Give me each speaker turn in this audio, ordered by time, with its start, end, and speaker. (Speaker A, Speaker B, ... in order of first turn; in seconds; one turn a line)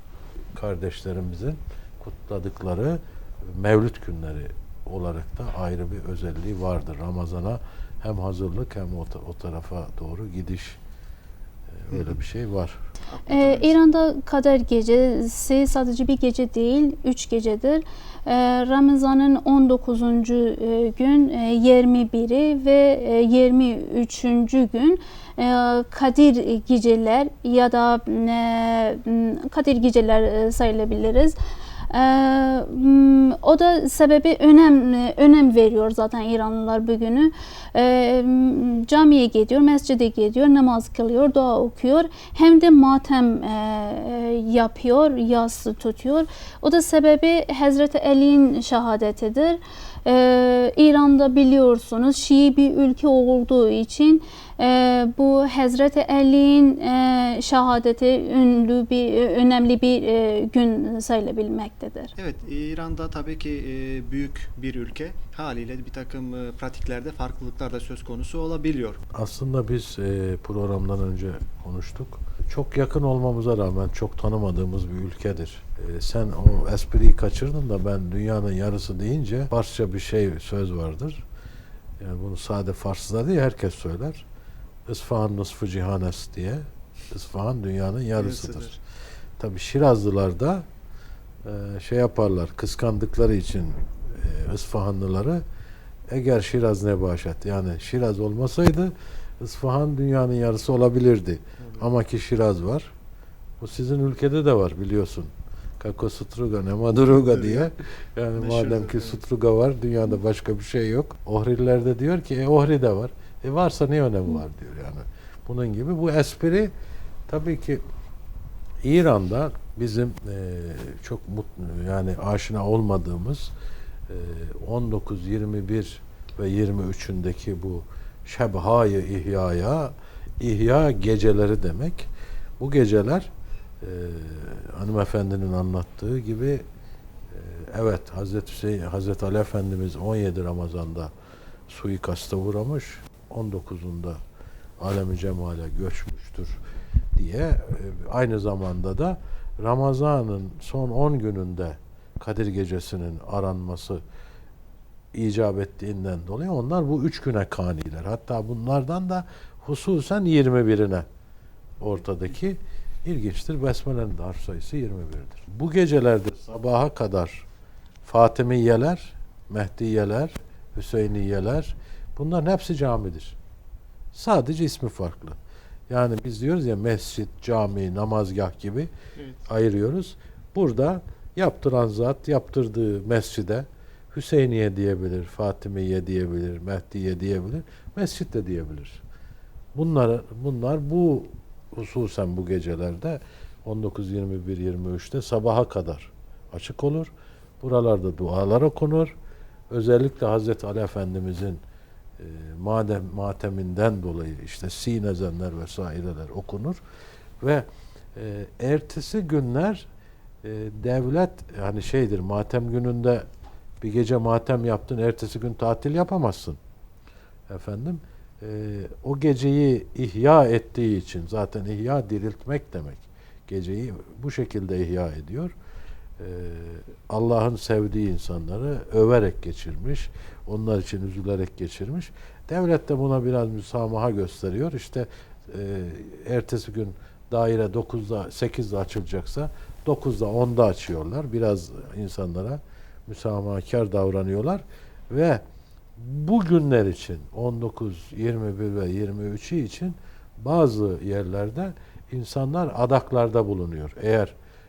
Speaker A: 0.5-10.8
Speaker A: 11.7-12.8
Speaker B: 11.9-12.2
Speaker B: 13.1-13.8
Speaker C: 13.3-31.4
Speaker C: 31.9-62.1
Speaker B: 62.2-69.0
Speaker A: 69.1-81.2
Speaker A: 82.0-84.3
Speaker A: 84.9-88.7
Speaker B: 88.2-88.8
Speaker A: 89.4-90.7
Speaker A: 91.4-95.4
Speaker A: 96.1-102.9
Speaker B: 101.6-101.9
Speaker A: 103.6-116.7
Speaker B: 107.1-107.7
Speaker B: 108.4-109.2
Speaker A: 117.3-117.8
Speaker A: 118.8-123.5
Speaker A: 124.1-133.3
Speaker A: 133.8-136.6
Speaker A: 137.3-141.1
Speaker A: 141.7-144.2
Speaker A: 144.8-146.6
Speaker A: 147.2-154.0
Speaker A: 155.1-161.1
Speaker A: 161.8-167.5
Speaker A: 168.1-173.4
Speaker A: 174.1-175.4
Speaker A: 175.9-178.9
Speaker B: 179.2-179.4
Speaker A: 179.5-189.0
Speaker A: 189.8-199.1
Speaker A: 199.7-201.6
Speaker A: 202.2-206.8
Speaker A: 207.4-209.9
Speaker A: 210.4-213.3
Speaker A: 213.8-216.6
Speaker A: 217.5-225.6
Speaker A: 226.2-245.4
Speaker A: 246.0-254.3